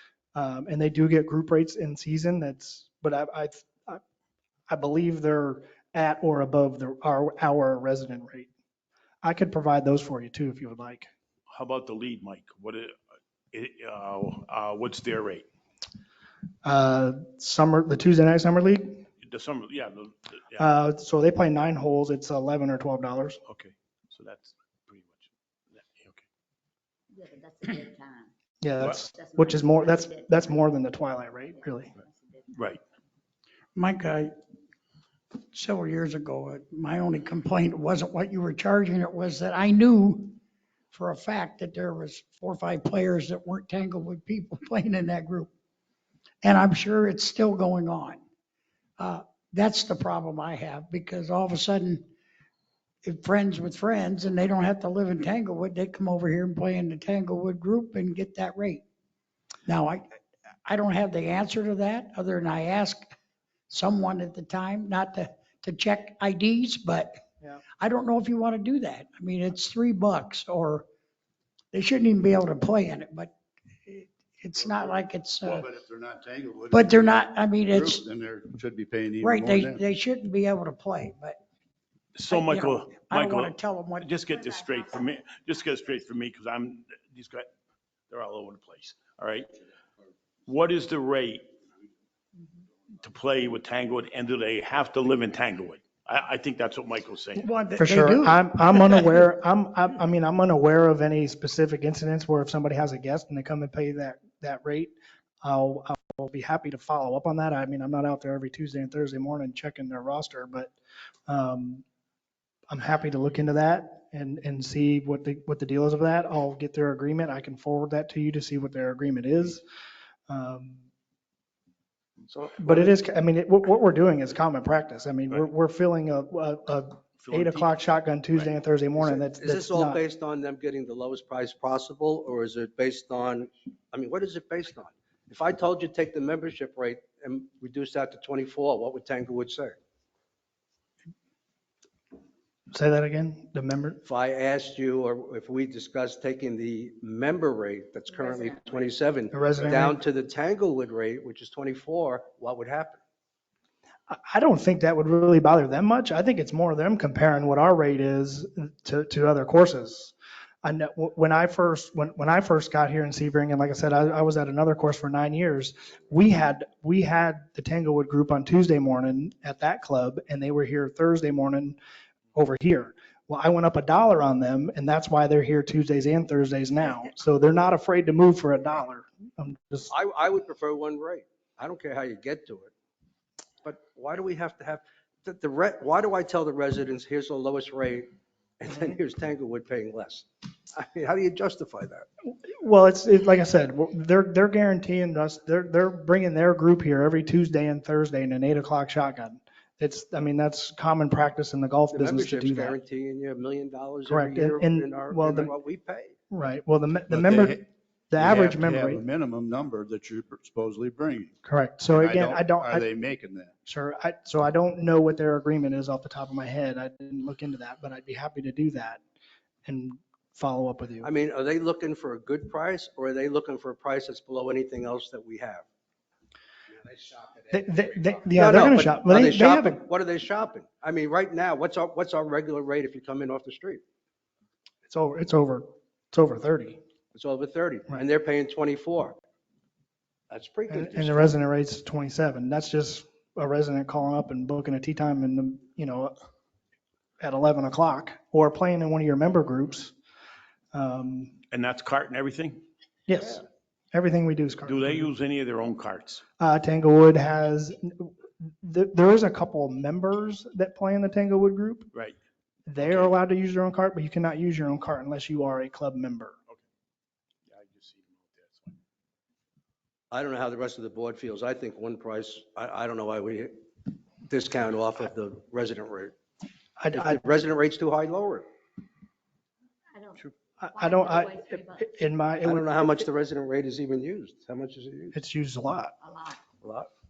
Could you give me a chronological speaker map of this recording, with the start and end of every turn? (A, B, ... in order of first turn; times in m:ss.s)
0:00.4-0:04.0 A
0:04.7-0:08.5 A
0:09.2-0:11.1 A
0:11.5-0:12.9 B
0:13.5-0:15.5 B
0:16.6-0:19.0 A
0:19.2-0:20.7 B
0:20.6-0:23.4 A
0:23.5-0:26.2 B
0:27.1-0:28.3 C
0:28.6-0:31.9 A
0:28.8-0:29.1 B
0:29.1-0:30.7 C
0:31.5-0:32.6 C
0:32.5-0:32.8 B
0:33.8-0:34.3 D
0:35.5-0:40.4 D
0:40.9-0:45.5 D
0:46.4-0:48.2 D
0:49.0-0:52.1 D
0:53.0-0:58.8 D
0:59.7-1:03.1 D
1:03.7-1:07.2 D
1:07.8-1:10.8 D
1:11.7-1:13.3 D
1:13.9-1:15.7 D
1:15.5-1:17.2 E
1:16.7-1:18.0 D
1:17.7-1:19.8 E
1:19.2-1:21.4 D
1:22.2-1:27.5 B
1:22.3-1:24.1 D
1:24.3-1:25.0 C
1:28.1-1:29.5 B
1:30.5-1:31.5 B
1:33.0-1:37.4 B
1:37.4-1:39.1 D
1:37.8-1:50.7 A
1:51.3-1:51.8 A
1:52.7-1:59.6 A
2:00.3-2:00.8 A
2:02.3-2:02.9 F
2:02.6-2:10.0 A
2:07.2-2:08.5 B
2:09.0-2:19.8 F
2:22.7-2:24.0 A
2:24.0-2:33.0 F
2:28.1-2:28.9 C
2:29.3-2:30.0 A
2:34.1-2:40.1 A
2:40.6-2:51.8 A
2:52.4-2:59.9 A
2:59.9-3:02.7 F
3:03.6-3:08.1 F
3:08.6-3:12.1 F
3:12.5-3:22.8 A
3:21.9-3:26.2 F
3:24.1-3:25.5 A
3:26.3-3:29.0 A
3:27.1-3:27.7 E
3:28.2-3:31.4 E
3:31.4-3:32.9 A
3:31.9-3:33.5 E
3:33.6-3:39.0 A
3:39.6-3:41.1 A
3:41.0-3:45.7 F
3:47.5-3:49.8 A
3:48.4-3:53.8 F
3:54.9-3:56.8 A
3:57.1-3:59.2 F
4:00.3-4:01.4 F
4:00.7-4:06.1 A
4:07.2-4:09.9 A
4:10.7-4:11.3 A
4:11.5-4:12.6 B
4:13.1-4:15.1 A
4:14.6-4:16.2 B
4:16.4-4:18.1 A
4:18.6-4:21.9 A
4:22.7-4:26.4 A
4:22.8-4:23.1 B
4:27.5-4:28.8 B
4:30.1-4:33.5 F
4:34.2-4:36.2 F
4:36.8-4:37.2 A
4:36.9-4:38.5 F
4:39.9-4:42.0 C
4:40.6-4:42.7 A
4:42.4-4:45.2 F
4:45.1-4:45.9 A
4:46.0-4:46.4 C
4:46.6-4:46.9 F